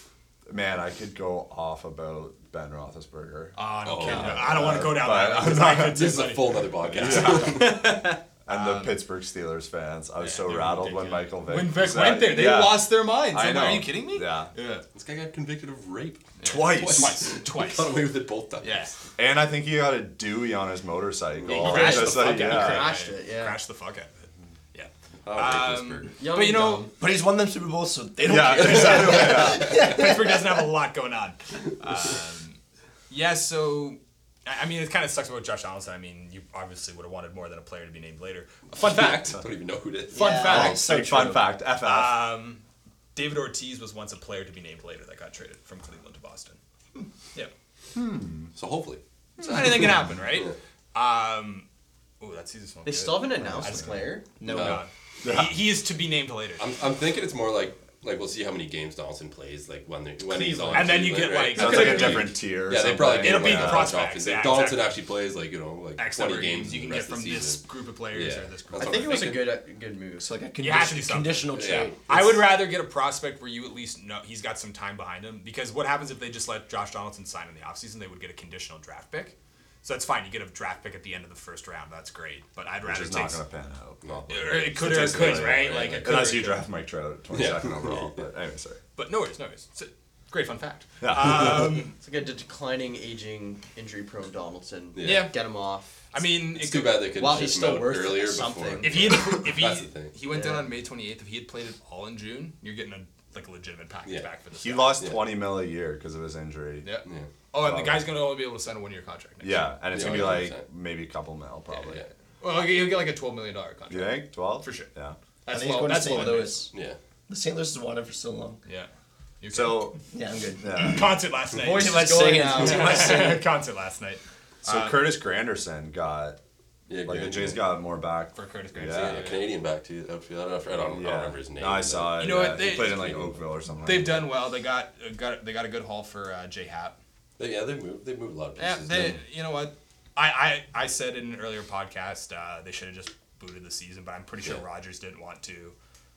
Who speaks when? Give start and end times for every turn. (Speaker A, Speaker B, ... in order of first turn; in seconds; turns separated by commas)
Speaker A: 0.5-6.0, Speaker B: 3.5-9.0, Speaker C: 3.8-4.6, Speaker C: 5.5-8.0, Speaker A: 7.0-7.9, Speaker A: 8.4-14.5, Speaker B: 10.2-14.8, Speaker C: 14.9-18.8, Speaker B: 16.4-18.0, Speaker A: 16.4-17.2, Speaker B: 18.6-18.9, Speaker A: 19.2-22.9, Speaker C: 21.5-22.1, Speaker B: 21.5-26.9, Speaker D: 21.5-23.6, Speaker C: 25.2-26.2, Speaker D: 26.2-26.9, Speaker E: 27.0-30.7, Speaker A: 28.2-29.7, Speaker C: 28.6-29.9, Speaker B: 28.9-39.4, Speaker C: 38.9-40.7, Speaker E: 40.1-41.5, Speaker B: 40.1-40.8, Speaker A: 40.5-42.2, Speaker B: 41.8-42.6, Speaker B: 43.1-46.6, Speaker A: 47.9-48.5, Speaker C: 48.5-49.0, Speaker B: 49.4-51.6, Speaker A: 49.4-49.9, Speaker B: 52.2-56.7, Speaker D: 52.9-54.2, Speaker A: 53.6-53.9, Speaker E: 54.4-54.8, Speaker C: 54.5-54.8, Speaker A: 55.2-55.6, Speaker C: 56.6-69.5, Speaker D: 60.3-61.0, Speaker B: 60.7-62.4, Speaker A: 61.5-63.9, Speaker B: 63.1-65.0, Speaker B: 66.0-69.4, Speaker D: 68.8-70.3, Speaker E: 70.2-72.0, Speaker B: 70.6-71.5, Speaker C: 71.5-72.5, Speaker B: 72.1-83.4, Speaker A: 82.8-88.8, Speaker C: 84.0-86.2, Speaker B: 84.3-86.6, Speaker C: 87.3-88.2, Speaker B: 89.0-91.9, Speaker A: 91.0-91.9, Speaker D: 92.0-96.0, Speaker C: 94.9-95.3, Speaker B: 95.0-95.3, Speaker B: 96.1-97.5, Speaker C: 96.4-100.1, Speaker D: 97.2-99.1, Speaker B: 98.8-105.0, Speaker D: 100.3-100.7, Speaker A: 104.6-106.9, Speaker B: 106.8-110.4, Speaker C: 107.0-107.3, Speaker A: 107.6-108.1, Speaker A: 109.4-112.0, Speaker C: 109.9-110.6, Speaker C: 111.8-112.1, Speaker B: 112.4-114.9, Speaker A: 113.9-115.2, Speaker B: 115.5-116.7, Speaker E: 115.5-116.7, Speaker C: 116.7-117.0, Speaker E: 117.3-118.6, Speaker B: 119.4-119.9, Speaker A: 119.5-120.0, Speaker E: 120.1-121.0, Speaker A: 120.6-121.2, Speaker B: 120.7-125.0, Speaker D: 121.5-123.2, Speaker E: 121.7-123.5, Speaker A: 124.6-126.4, Speaker C: 126.9-127.6, Speaker A: 127.0-129.3, Speaker B: 128.3-129.4, Speaker C: 128.9-133.3, Speaker A: 130.9-134.3, Speaker B: 132.2-133.1, Speaker B: 133.8-136.9, Speaker C: 137.4-139.2, Speaker B: 138.6-145.7